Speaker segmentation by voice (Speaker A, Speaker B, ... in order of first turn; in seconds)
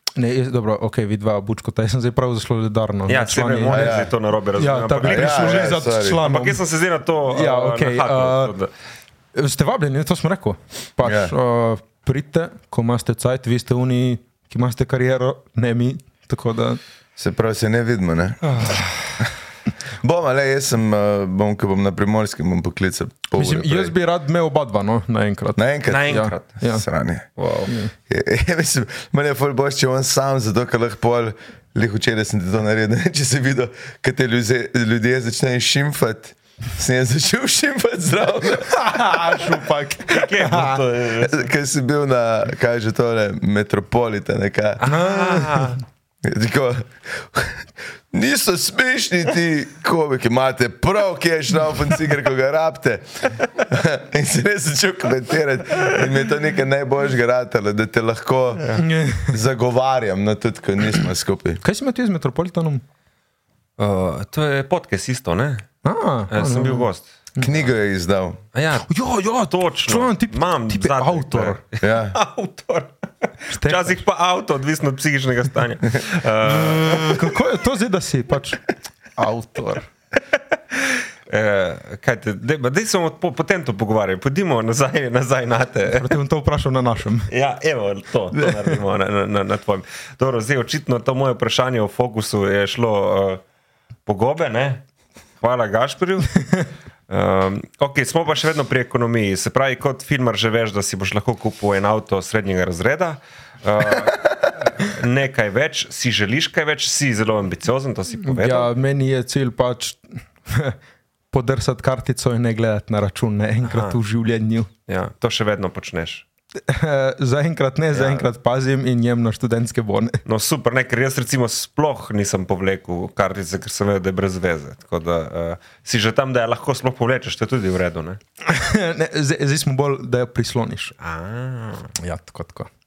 Speaker A: 0.2-4.0, 4.6-6.6, 7.3-8.5, 9.3-16.8, 23.4-26.9, 27.7-27.9, 38.7-40.8, 44.8-45.8, 58.8-59.3, 61.6-62.8, 65.8-67.5, 68.9-71.6, 73.5-74.0, 76.5-78.7, 79.2-79.9, 85.9-87.3, 88.3-88.7, 108.2-110.8, 111.3-114.7, 116.7-120.2, 128.5-130.9, 132.0-132.7
Speaker B: 3.1-8.7, 18.4-19.3, 25.9-26.6, 27.4-27.7, 40.1-41.5, 44.8-45.8, 63.8-65.7, 66.3-67.1, 68.5-69.0, 69.5-72.9, 73.5-77.4, 81.3-86.1, 87.3-93.4, 94.1-94.8, 95.4-96.3, 97.1-108.7, 113.6-114.0, 114.9-116.2, 117.9-118.3, 120.2-128.2, 131.0-131.9
Speaker C: 3.7-4.1, 5.1-6.2, 11.0-11.3, 17.2-18.4, 20.0-23.9, 25.6-27.3, 28.1-39.2, 41.2-44.8, 46.2-61.6, 67.4-68.4, 71.8-72.2